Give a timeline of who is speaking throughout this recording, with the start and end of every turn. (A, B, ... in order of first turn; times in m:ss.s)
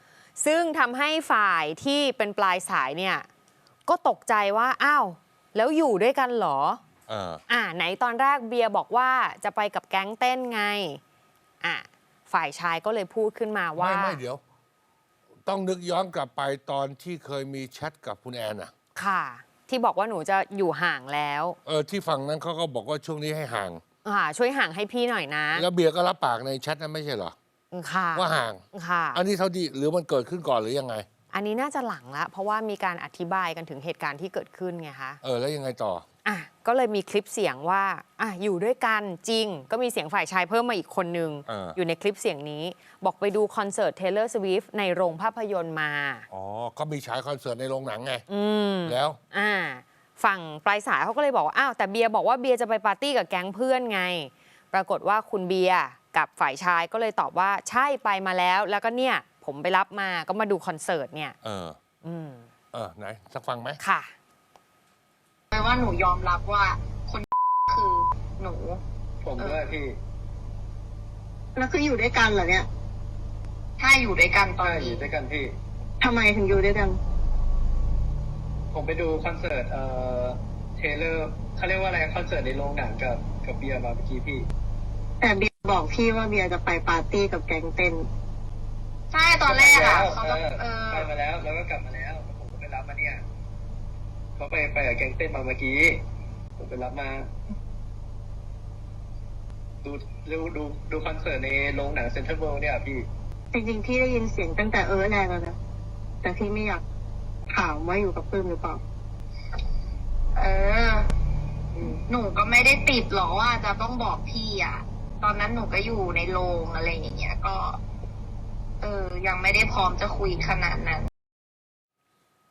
0:00.4-0:03.3 A
0:03.9-0:06.8 A
0:07.1-0:07.4 B
0:07.5-0:11.0 A
0:11.6-0:14.2 A
0:13.8-0:14.4 B
0:15.4-0:18.7 B
0:18.9-0:21.6 A
0:21.6-0:23.8 B
0:24.0-0:25.6 A
0:25.5-0:27.3 B
0:27.7-0:29.2 A
0:28.1-0:28.6 B
0:29.1-0:31.0 B
0:31.3-0:35.2 A
0:35.2-0:36.0 B
0:36.2-0:46.3 A
0:41.5-0:41.8 B
0:46.3-0:48.2 B
0:48.3-1:01.4 A
0:48.8-0:49.2 B
1:01.4-1:01.8 B
1:02.0-1:02.5 A
1:02.7-1:03.8 B
1:03.8-1:04.1 A
1:05.5-1:08.8 C
1:09.2-1:10.0 D
1:09.4-1:09.6 C
1:11.6-1:12.7 E
1:13.8-1:15.1 C
1:14.6-1:15.6 D
1:16.0-1:17.0 E
1:18.7-1:24.5 D
1:25.2-1:28.0 E
1:29.1-1:31.1 C
1:29.4-1:33.2 D
1:34.4-1:36.0 D
1:36.6-1:37.3 D
1:39.8-1:43.1 D
1:43.5-1:45.6 E
1:46.2-1:46.8 E
1:47.5-1:48.8 E
1:50.4-1:51.1 C
1:52.0-1:57.8 C
1:58.8-2:01.1 C